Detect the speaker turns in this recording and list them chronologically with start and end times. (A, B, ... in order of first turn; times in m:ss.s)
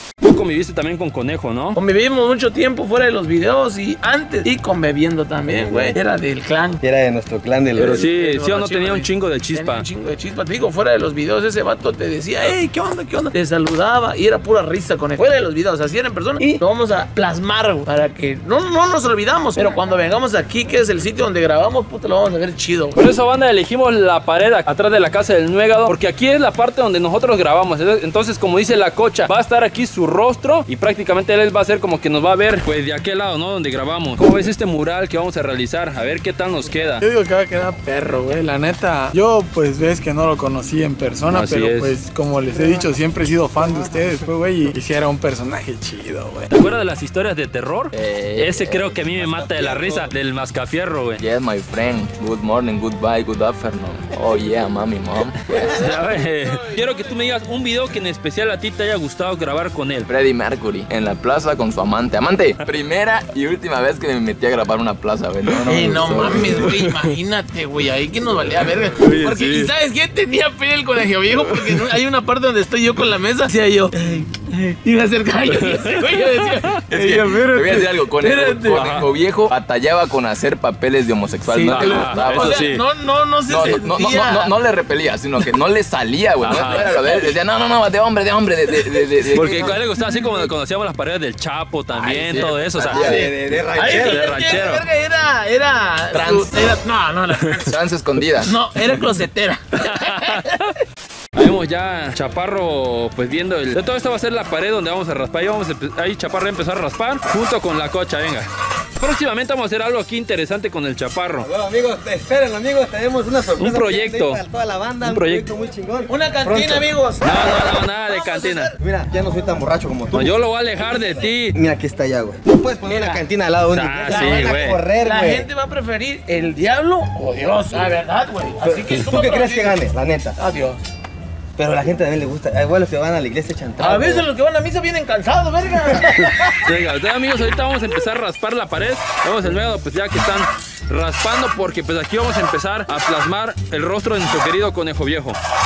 0:00.2-0:01.8 A
0:01.8-0:06.8 B
0:05.5-0:06.0 C
0:06.8-0:08.1 C
0:07.8-0:09.8 A
0:08.0-0:23.0 B
0:23.0-0:37.0 A
0:37.0-0:46.5 D
0:41.3-0:41.9 A
0:46.5-0:51.2 A
0:47.9-0:49.2 E
0:49.6-0:50.0 C
0:51.2-0:55.6 E
0:55.5-0:57.1 B
0:55.6-1:00.1 A
1:00.1-1:06.8 E
1:05.6-1:18.9 B
1:09.0-1:09.7 C
1:16.9-1:22.7 E
1:18.7-1:19.1 A
1:21.5-1:24.5 B
1:21.7-1:22.8 A
1:23.5-1:29.8 E
1:26.4-1:27.0 A
1:26.5-1:27.2 B
1:29.3-1:33.1 A
1:32.0-1:33.3 E
1:32.8-1:34.6 C
1:32.9-1:37.8 B
1:33.9-1:34.8 A
1:36.1-1:36.5 E
1:37.7-1:38.6 E
1:38.4-1:40.6 B
1:39.9-1:40.5 A
1:41.4-1:51.5 A
1:51.4-1:56.9 C
1:53.6-1:54.4 A
1:55.0-1:55.5 A
1:56.1-1:58.8 B
1:57.2-1:58.7 A
1:58.8-2:05.5 C
2:00.1-2:01.6 A
2:02.8-2:03.2 B
2:03.7-2:04.8 A
2:04.1-2:09.8 B
2:08.6-2:10.4 C
2:10.4-2:10.8 B
2:11.6-2:14.3 C
2:13.8-2:16.6 B
2:15.9-2:16.3 C
2:16.6-2:25.4 A